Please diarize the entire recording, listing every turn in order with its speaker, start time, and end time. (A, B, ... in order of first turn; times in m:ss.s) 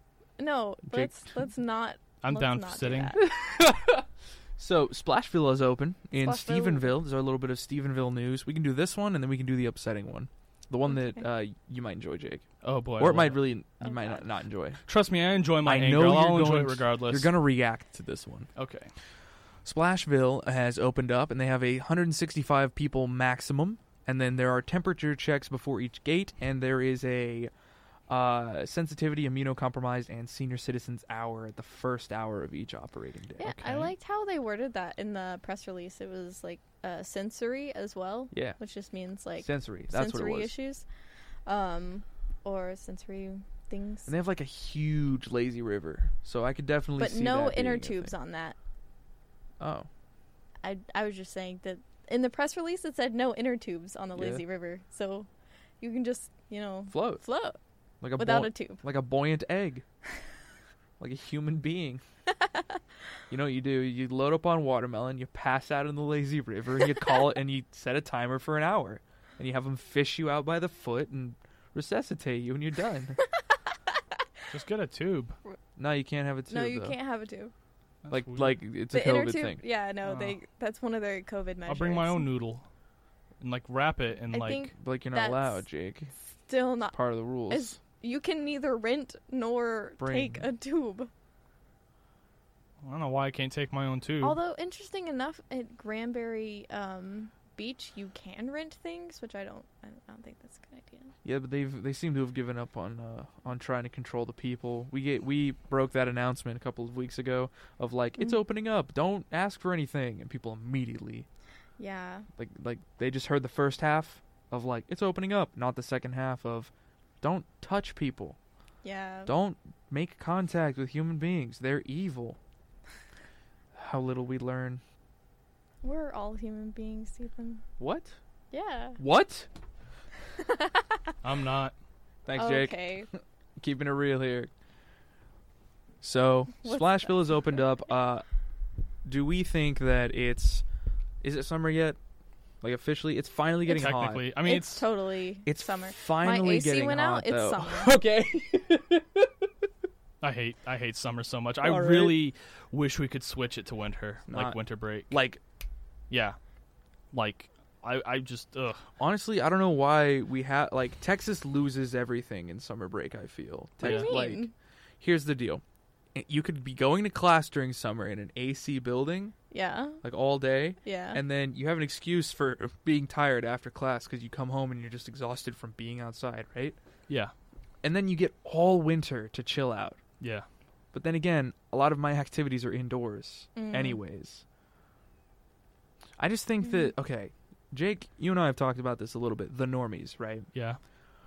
0:00.4-0:03.2 A
0:00.9-0:01.2 B
0:02.2-0:03.2 C
0:03.2-0:04.1 B
0:04.6-0:12.5 B
0:06.2-0:06.9 A
0:10.9-0:11.2 A
0:12.6-0:13.4 C
0:13.0-0:14.8 B
0:13.8-0:14.2 A
0:14.9-0:17.3 C
0:15.6-0:18.5 B
0:18.6-0:18.9 C
0:19.6-0:27.5 B
0:28.1-0:33.8 B
0:33.4-0:40.9 A
0:38.3-0:38.6 B
0:39.4-0:40.5 B
0:41.5-0:44.1 A
0:44.1-0:48.1 B
0:47.0-0:48.6 A
0:49.6-0:49.9 B
0:50.6-0:55.3 A
0:54.2-0:54.4 B
0:55.8-0:57.6 A
0:56.9-0:57.2 B
0:58.0-0:59.8 B
0:58.2-0:58.8 A
1:01.0-1:02.0 B
1:03.3-1:13.2 B
1:14.5-1:15.4 C
1:15.8-1:17.0 B
1:16.5-1:17.5 A
1:18.0-1:18.6 C
1:18.1-1:19.6 B
1:18.9-1:22.3 A
1:20.0-1:20.4 C
1:21.7-1:22.7 C
1:23.4-1:24.7 C
1:24.3-1:25.6 A
1:24.8-1:26.1 B
1:26.3-1:31.1 A
1:26.9-1:27.8 B
1:30.0-1:30.4 B
1:32.8-1:34.4 C
1:34.2-1:41.1 A
1:41.2-1:51.3 B
1:51.8-1:52.3 A
1:52.4-1:58.4 B
1:58.8-1:59.3 A
1:59.3-2:02.4 B
2:03.8-2:04.8 B
2:05.8-2:07.6 A
2:07.8-2:08.2 B
2:08.5-2:09.0 A
2:09.0-2:09.5 B
2:10.4-2:11.1 A
2:11.2-2:11.7 C
2:12.3-2:14.5 B
2:12.4-2:13.1 A
2:16.0-2:18.2 B
2:16.6-2:17.5 A
2:19.0-2:20.6 B
2:21.2-2:22.0 B
2:22.6-2:24.3 B
2:23.7-2:24.8 C
2:24.4-2:27.9 A
2:25.5-2:29.5 B
2:30.2-2:35.1 C
2:31.6-2:32.2 B
2:34.3-2:34.6 B
2:35.1-2:35.4 B
2:36.1-2:36.4 C
2:37.1-2:38.9 C
2:39.0-2:44.4 B
2:43.8-2:44.2 C
2:43.8-2:44.5 A
2:45.0-2:45.6 B
2:46.2-2:49.4 B
2:49.5-2:50.0 A
2:50.0-2:56.8 B
2:50.8-2:51.2 A
2:57.8-3:00.0 B
3:00.2-3:00.5 C
3:00.9-3:04.4 B
3:03.6-3:04.0 A
3:06.2-3:10.5 B
3:10.5-3:10.8 C